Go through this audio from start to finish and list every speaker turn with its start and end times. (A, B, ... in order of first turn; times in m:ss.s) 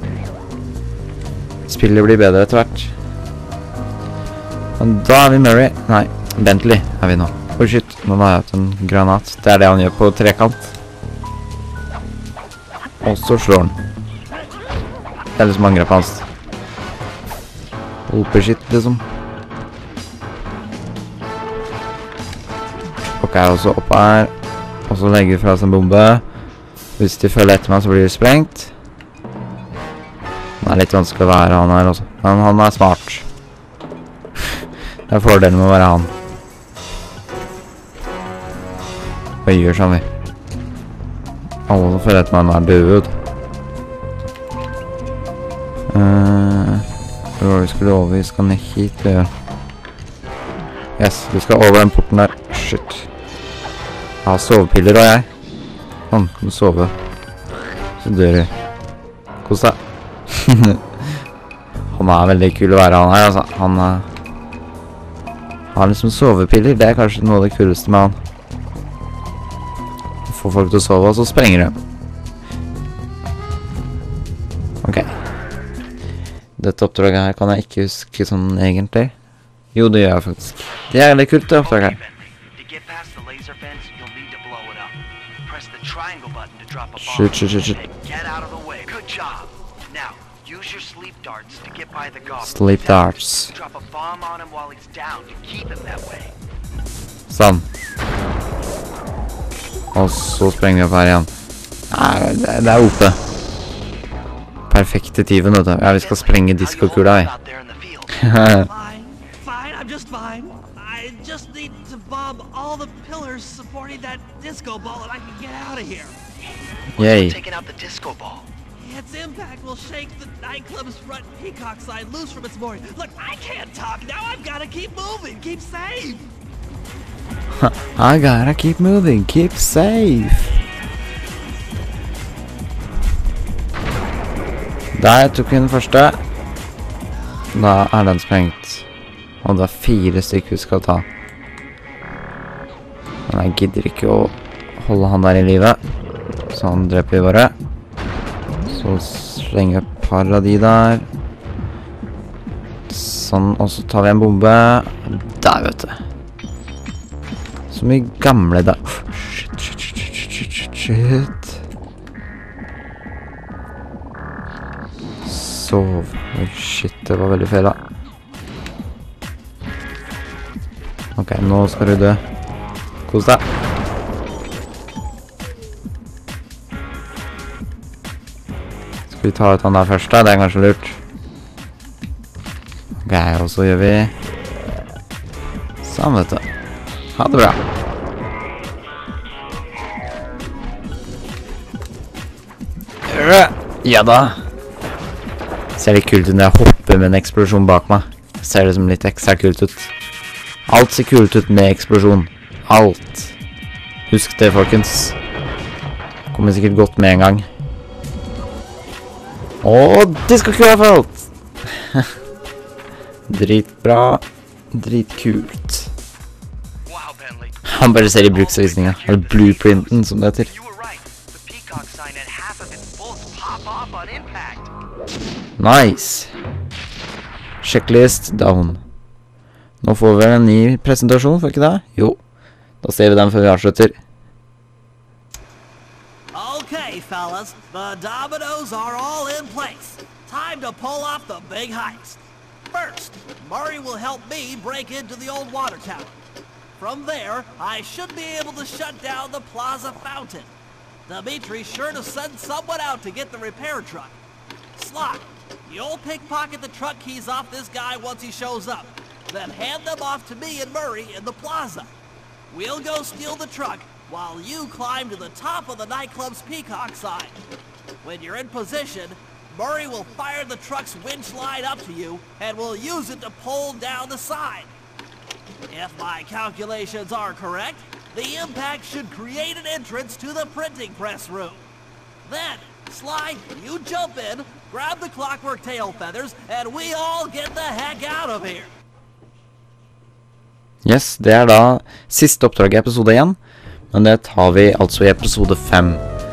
0:01.7-0:02.9 A
0:04.8-0:10.8 A
0:13.0-0:13.8 A
0:15.4-0:16.3 A
0:18.1-0:19.0 A
0:23.2-0:24.3 A
0:24.9-0:26.2 A
0:27.0-0:28.7 A
0:30.6-0:33.3 A
0:35.1-0:36.1 A
0:39.4-0:40.0 A
0:41.7-0:43.2 A
0:45.9-0:49.3 A
0:51.0-0:53.1 A
0:54.2-0:55.3 A
0:56.1-0:57.0 A
0:58.0-0:58.5 A
0:59.4-0:59.8 A
1:00.3-1:00.8 A
1:01.9-1:04.1 A
1:05.7-1:08.2 A
1:10.3-1:11.8 A
1:14.8-1:15.1 A
1:16.6-1:19.1 A
1:19.8-1:22.0 A
1:21.5-1:36.3 B
1:27.0-1:27.8 A
1:32.4-1:33.5 A
1:37.3-1:37.7 A
1:39.9-1:41.3 A
1:41.9-1:43.2 A
1:44.7-1:47.3 A
1:45.9-1:48.2 B
1:48.2-1:48.7 A
1:48.3-1:56.2 C
1:57.0-1:57.4 A
1:57.0-1:58.5 B
1:58.8-2:06.3 C
2:07.6-2:10.6 A
2:14.9-2:16.2 A
2:17.5-2:18.9 A
2:19.4-2:21.1 A
2:23.3-2:25.8 A
2:26.5-2:27.6 A
2:28.7-2:31.1 A
2:32.9-2:36.0 A
2:37.7-2:41.6 A
2:45.2-2:47.8 A
2:51.2-2:52.2 A
2:53.1-2:53.4 A
2:59.1-3:01.0 A
3:03.0-3:04.1 A
3:05.8-3:06.5 A
3:07.1-3:07.6 A
3:13.1-3:14.4 A
3:15.8-3:19.9 A
3:20.7-3:23.4 A
3:24.1-3:25.2 A
3:26.3-3:27.5 A
3:29.6-3:32.1 A
3:33.3-3:35.9 A
3:36.9-3:44.7 B
3:37.6-3:40.5 A
3:45.6-3:46.3 A
3:47.6-3:48.8 A
3:49.8-3:52.2 A
3:52.8-3:54.0 A
3:56.3-4:06.2 C
4:06.8-4:10.5 C
4:11.1-4:14.2 C
4:14.8-4:21.9 C
4:22.5-4:27.4 C
4:28.0-4:34.7 C
4:35.7-4:41.6 C
4:42.2-4:48.7 C
4:50.8-4:53.4 A
4:53.9-4:56.0 A